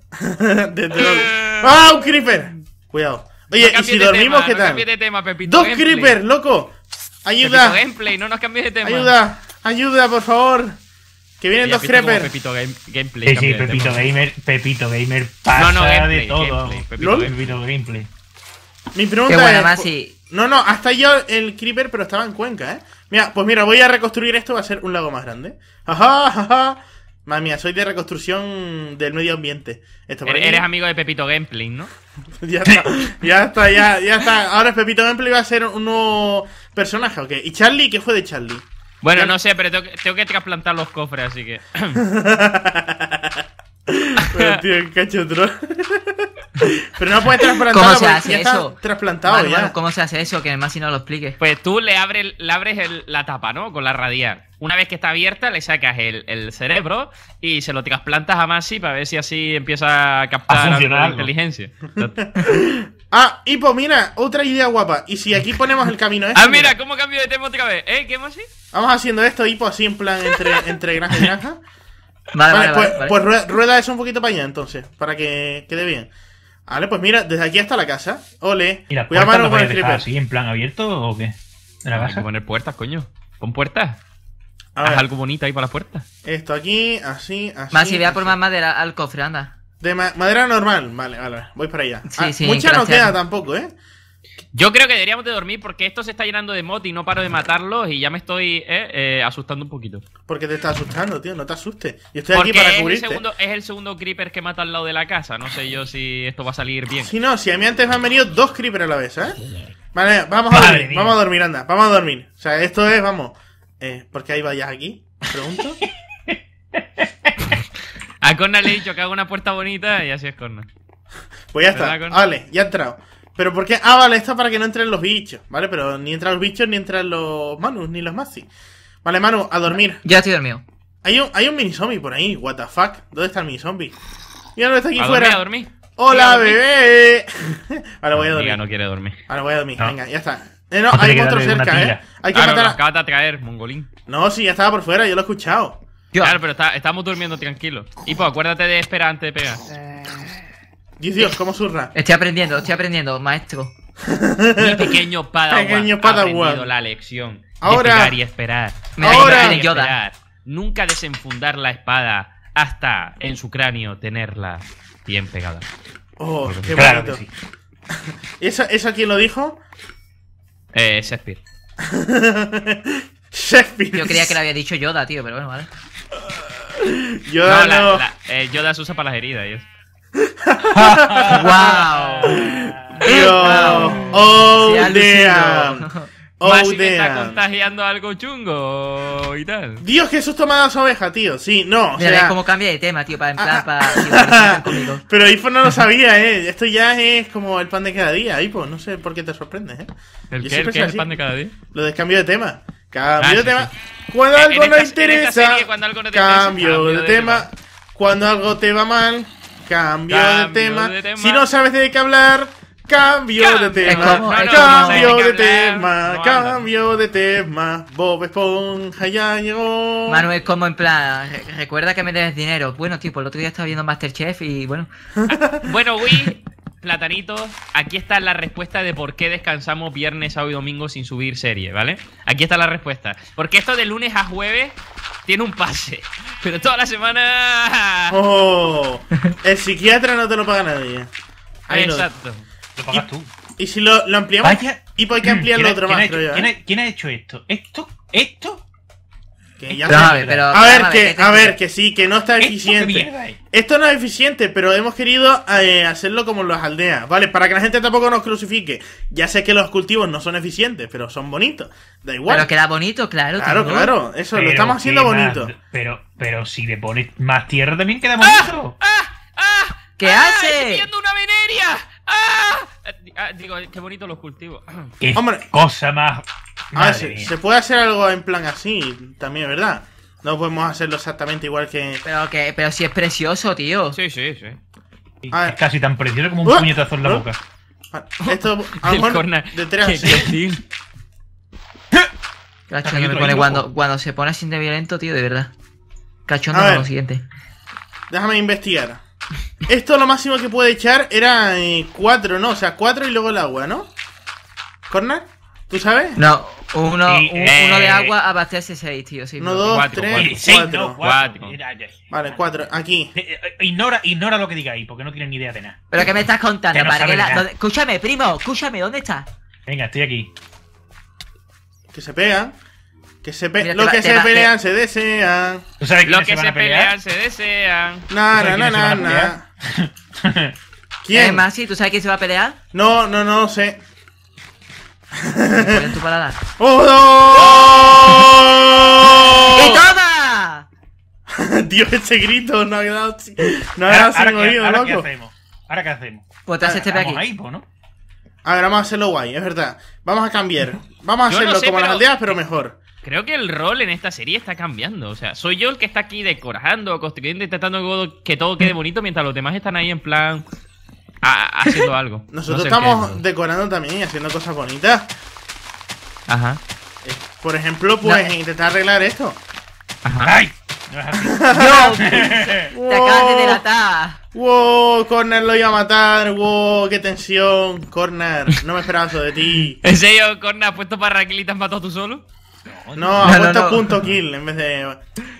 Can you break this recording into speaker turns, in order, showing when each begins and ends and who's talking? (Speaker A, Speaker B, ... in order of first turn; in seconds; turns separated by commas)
Speaker A: 0.2-4.9, Speaker B: 1.0-1.7, Speaker B: 3.6-6.2, Speaker A: 5.5-7.8, Speaker B: 7.4-9.1, Speaker A: 8.8-10.8, Speaker A: 11.4-12.3, Speaker B: 11.6-14.0, Speaker C: 13.2-18.1, Speaker B: 15.6-17.6, Speaker A: 17.0-17.3, Speaker A: 18.9-30.6, Speaker D: 19.3-20.1, Speaker B: 30.3-31.9, Speaker A: 32.4-39.4, Speaker B: 39.0-42.0, Speaker A: 42.0-49.8, Speaker B: 44.4-44.6, Speaker D: 47.7-51.4, Speaker B: 51.4-62.2, Speaker C: 60.5-61.3, Speaker A: 62.0-66.8, Speaker B: 66.3-68.5, Speaker A: 68.7-71.6, Speaker D: 72.3-73.2, Speaker A: 72.5-76.1, Speaker A: 76.7-80.1, Speaker C: 78.9-82.3, Speaker B: 82.0-84.0, Speaker A: 84.8-85.0, Speaker B: 84.8-86.0, Speaker A: 86.2-88.3, Speaker D: 87.7-89.5, Speaker A: 89.8-93.7, Speaker D: 92.0-93.2, Speaker B: 94.5-100.0, Speaker A: 100.3-103.2, Speaker B: 102.3-107.1, Speaker A: 107.0-109.4, Speaker A: 109.9-115.8, Speaker C: 110.5-111.2, Speaker C: 115.8-117.4, Speaker B: 118.2-120.7, Speaker A: 121.5-128.5, Speaker B: 121.7-122.2, Speaker A: 129.0-130.0, Speaker D: 130.0-130.6, Speaker A: 131.0-133.9, Speaker A: 134.6-135.4, Speaker B: 135.0-136.6, Speaker A: 136.0-138.6, Speaker B: 138.2-139.2, Speaker A: 139.3-142.8, Speaker C: 140.9-142.0, Speaker B: 142.3-143.9, Speaker A: 144.1-145.8, Speaker B: 146.2-149.6, Speaker A: 151.0-151.9, Speaker D: 151.9-153.7, Speaker A: 154.0-155.0, Speaker B: 154.6-165.7, Speaker A: 155.5-156.7, Speaker A: 157.6-158.2, Speaker D: 159.0-160.0, Speaker A: 159.0-159.6, Speaker A: 166.2-167.2, Speaker B: 166.5-166.9, Speaker C: 166.7-167.3, Speaker A: 167.9-169.6, Speaker B: 170.7-171.4, Speaker A: 171.8-174.4, Speaker D: 173.9-175.7, Speaker A: 176.3-178.0, Speaker B: 177.4-179.7, Speaker A: 180.2-185.9, Speaker C: 180.7-184.2, Speaker D: 181.3-182.4, Speaker D: 183.0-186.1, Speaker A: 186.4-187.4, Speaker B: 186.4-189.8, Speaker A: 189.8-192.4, Speaker D: 192.0-195.0, Speaker A: 193.4-199.9, Speaker B: 200.3-201.5, Speaker A: 200.4-201.1, Speaker A: 201.7-220.3, Speaker B: 203.2-203.7, Speaker B: 204.3-207.5, Speaker B: 210.1-211.5, Speaker B: 213.4-216.7, Speaker D: 213.8-215.2, Speaker D: 220.1-224.9, Speaker A: 225.3-225.7, Speaker B: 225.6-238.2, Speaker A: 238.1-241.1, Speaker A: 241.7-242.1, Speaker B: 241.7-242.4, Speaker C: 242.8-243.3, Speaker A: 242.9-246.5, Speaker C: 244.4-248.6, Speaker A: 249.6-262.5, Speaker C: 249.7-250.6, Speaker D: 249.9-251.6, Speaker C: 252.4-253.4, Speaker D: 262.3-263.9, Speaker A: 263.4-265.5, Speaker C: 264.3-268.8, Speaker B: 268.2-274.9, Speaker D: 270.0-270.9, Speaker C: 275.0-277.3, Speaker A: 275.1-275.5, Speaker A: 276.8-282.0, Speaker D: 282.1-284.0, Speaker B: 283.9-284.6, Speaker C: 285.2-287.4, Speaker A: 286.4-287.3, Speaker A: 287.9-290.3, Speaker B: 288.2-290.6, Speaker D: 292.7-295.5, Speaker C: 292.8-293.7, Speaker D: 296.3-297.2, Speaker A: 296.5-296.9, Speaker A: 298.1-299.0, Speaker A: 299.7-303.9, Speaker A: 304.9-306.2, Speaker D: 306.2-309.9, Speaker C: 307.1-308.1, Speaker B: 307.4-308.0, Speaker A: 309.4-311.0, Speaker B: 309.7-311.6, Speaker C: 310.1-312.1, Speaker A: 312.1-313.1, Speaker C: 313.1-315.8, Speaker D: 315.9-319.3, Speaker C: 316.7-317.5, Speaker C: 319.7-320.3, Speaker A: 321.9-322.6, Speaker A: 323.2-325.7, Speaker D: 323.6-324.5, Speaker C: 325.8-326.9, Speaker B: 326.1-328.1, Speaker A: 328.1-329.4, Speaker C: 328.3-330.6, Speaker A: 331.0-331.4, Speaker D: 331.1-332.6, Speaker A: 332.7-333.8, Speaker A: 335.1-335.9, Speaker D: 335.6-336.4, Speaker A: 336.6-339.9, Speaker B: 337.4-338.0, Speaker D: 339.6-340.7, Speaker A: 341.3-345.1, Speaker C: 343.9-346.3, Speaker D: 346.5-347.2, Speaker C: 346.8-347.6, Speaker A: 348.4-352.8, Speaker B: 351.3-352.1, Speaker B: 353.0-360.4, Speaker B: 361.2-363.2, Speaker A: 362.3-365.1, Speaker B: 366.3-366.6, Speaker A: 367.0-369.4, Speaker D: 368.0-368.3, Speaker B: 370.1-370.4, Speaker C: 370.2-372.7, Speaker A: 371.2-373.6, Speaker D: 371.5-374.2, Speaker A: 374.3-379.8, Speaker B: 379.8-382.2, Speaker C: 382.7-383.5, Speaker A: 383.0-385.1, Speaker D: 383.2-383.9